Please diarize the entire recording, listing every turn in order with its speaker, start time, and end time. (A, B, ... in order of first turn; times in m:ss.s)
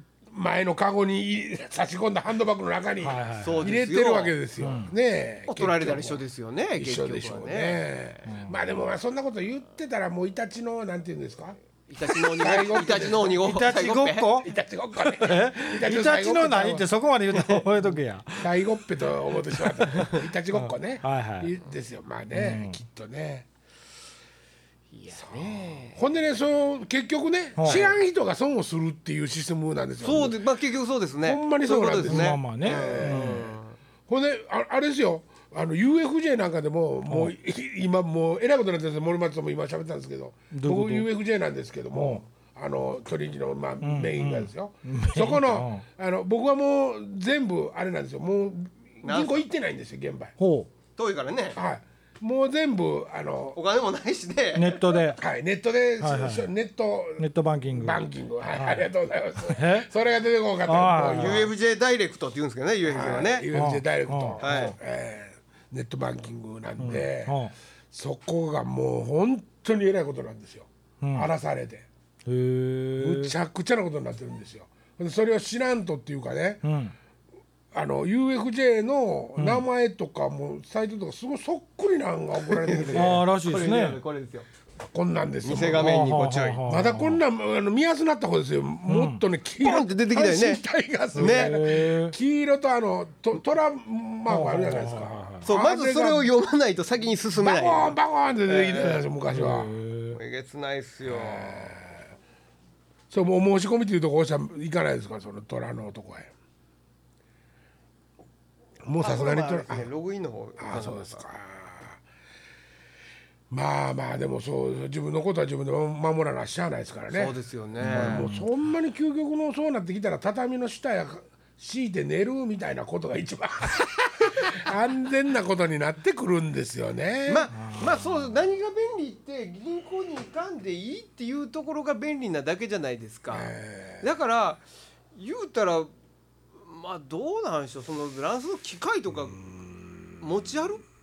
0:00.3-0:06.2 A
0:03.0-0:03.7 B
0:03.4-0:04.3 C
0:04.6-0:04.9 B
0:05.5-0:07.8 C
0:06.8-0:13.5 A
0:08.3-0:08.6 B
0:11.9-0:14.4 C
0:13.2-0:14.5 B
0:14.4-0:16.9 A
0:15.1-0:18.5 B
0:18.4-0:23.5 A
0:19.9-0:21.5 B
0:19.9-0:20.2 C
0:22.3-0:22.8 B
0:24.9-0:26.0 C
0:25.1-0:30.4 A
0:27.6-0:27.8 B
0:27.6-0:28.0 C
0:30.0-0:33.8 C
0:31.2-0:33.5 A
0:32.0-0:33.5 B
0:34.1-0:50.3 A
0:37.1-0:37.3 B
0:40.5-0:41.1 B
0:41.9-0:42.2 B
0:43.8-0:45.8 B
0:49.0-0:49.4 C
0:50.4-0:50.7 B
0:51.0-0:51.6 C
0:51.5-0:53.6 A
0:53.5-0:55.1 C
0:54.5-0:55.2 B
0:55.2-1:01.5 A
0:56.0-0:56.5 B
0:57.2-0:58.9 B
0:59.4-0:59.9 B
1:00.6-1:01.5 B
1:01.1-1:03.5 C
1:02.8-1:07.4 A
1:03.5-1:04.7 B
1:04.4-1:04.7 C
1:06.8-1:07.5 B
1:07.9-1:11.8 A
1:11.0-1:11.3 B
1:12.2-1:13.3 B
1:13.0-1:16.6 A
1:16.6-1:16.9 B
1:17.7-1:23.2 A
1:19.4-1:19.6 B
1:22.5-1:24.4 C
1:22.9-1:24.0 B
1:24.8-1:26.1 A
1:25.4-1:26.6 C
1:25.6-1:27.2 B
1:26.6-1:36.3 A
1:28.8-1:29.2 B
1:29.6-1:30.6 C
1:31.1-1:32.2 B
1:31.2-1:31.6 C
1:34.3-1:35.4 B
1:35.4-1:39.0 C
1:37.4-1:39.7 A
1:39.3-1:40.2 B
1:40.1-1:41.7 C
1:41.0-1:42.0 A
1:43.1-1:46.3 A
1:48.8-1:49.9 A
1:49.0-1:51.2 C
1:50.6-1:52.0 A
1:53.5-2:07.5 A
1:57.1-1:58.3 C
1:57.8-1:58.5 B
2:07.3-2:14.6 C
2:07.5-2:08.3 B
2:13.3-2:14.1 A
2:15.1-2:15.9 C
2:16.6-2:19.4 C
2:19.5-2:19.9 A
2:20.2-2:20.8 C